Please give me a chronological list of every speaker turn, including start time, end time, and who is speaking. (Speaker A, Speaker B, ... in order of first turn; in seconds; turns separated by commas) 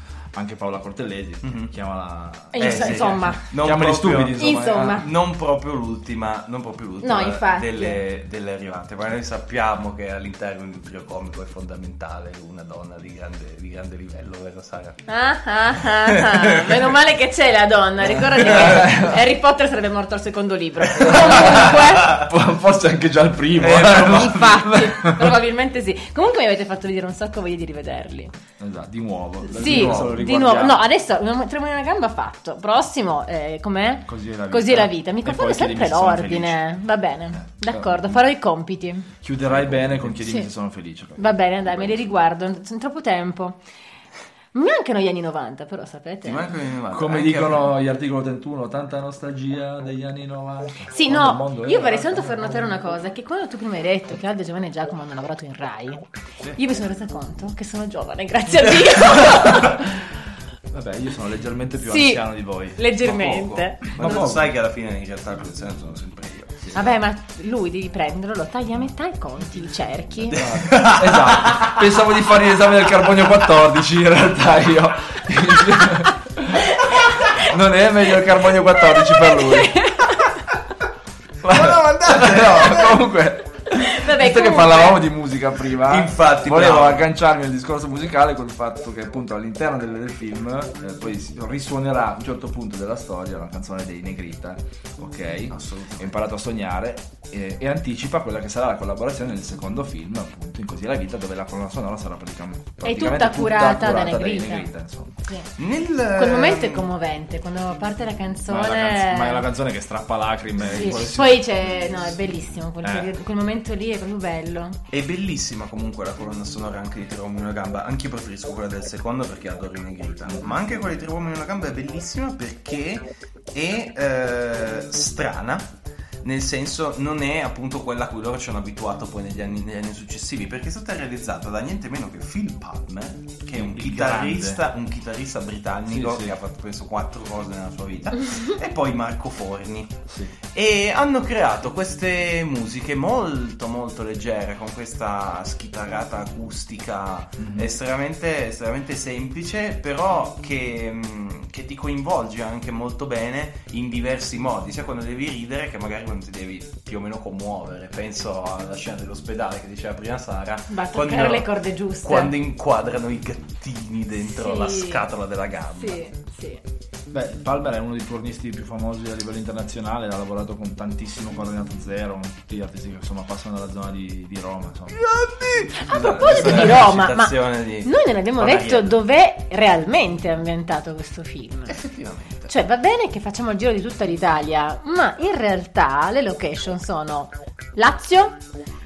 Speaker A: 0.3-5.0, Speaker B: 1.4-1.7, Speaker C: 2.5-3.4, Speaker B: 2.6-15.0, Speaker C: 4.3-5.1, Speaker C: 7.0-8.0, Speaker C: 15.1-22.2, Speaker B: 15.9-16.9, Speaker A: 18.1-19.2, Speaker A: 21.0-25.4, Speaker B: 21.0-22.2, Speaker B: 23.6-24.8, Speaker C: 24.0-28.3, Speaker A: 28.6-30.8, Speaker C: 29.5-39.1, Speaker B: 29.6-30.2, Speaker A: 34.1-36.6, Speaker A: 37.4-38.1, Speaker A: 39.2-41.4, Speaker B: 39.5-40.2, Speaker C: 41.2-43.6, Speaker C: 44.5-46.5, Speaker B: 46.2-47.7, Speaker A: 46.9-52.6, Speaker C: 50.9-59.9, Speaker A: 59.7-60.0, Speaker A: 60.7-62.8, Speaker C: 61.8-62.2, Speaker C: 62.8-64.2, Speaker B: 63.0-66.9, Speaker A: 64.0-64.5, Speaker C: 66.7-70.5, Speaker B: 70.3-71.8, Speaker A: 70.3-79.9, Speaker C: 76.7-77.4, Speaker C: 78.9-80.4, Speaker A: 81.4-105.2, Speaker B: 81.4-83.1, Speaker C: 83.7-85.0, Speaker B: 85.8-87.1, Speaker B: 95.5-96.2, Speaker C: 102.8-104.7, Speaker B: 105.6-106.9, Speaker C: 106.1-109.4, Speaker A: 108.5-111.6, Speaker C: 110.6-114.8, Speaker A: 112.8-113.1, Speaker B: 114.9-125.7, Speaker B: 126.2-140.0, Speaker A: 133.5-134.6, Speaker A: 135.9-136.3, Speaker A: 140.1-140.3, Speaker B: 140.5-166.0, Speaker A: 147.4-147.7, Speaker C: 160.7-162.3, Speaker C: 164.2-165.1, Speaker C: 165.7-166.6, Speaker A: 167.1-175.0, Speaker B: 174.9-179.0, Speaker C: 175.8-181.8, Speaker A: 175.9-176.7, Speaker B: 181.7-182.5, Speaker C: 182.5-188.4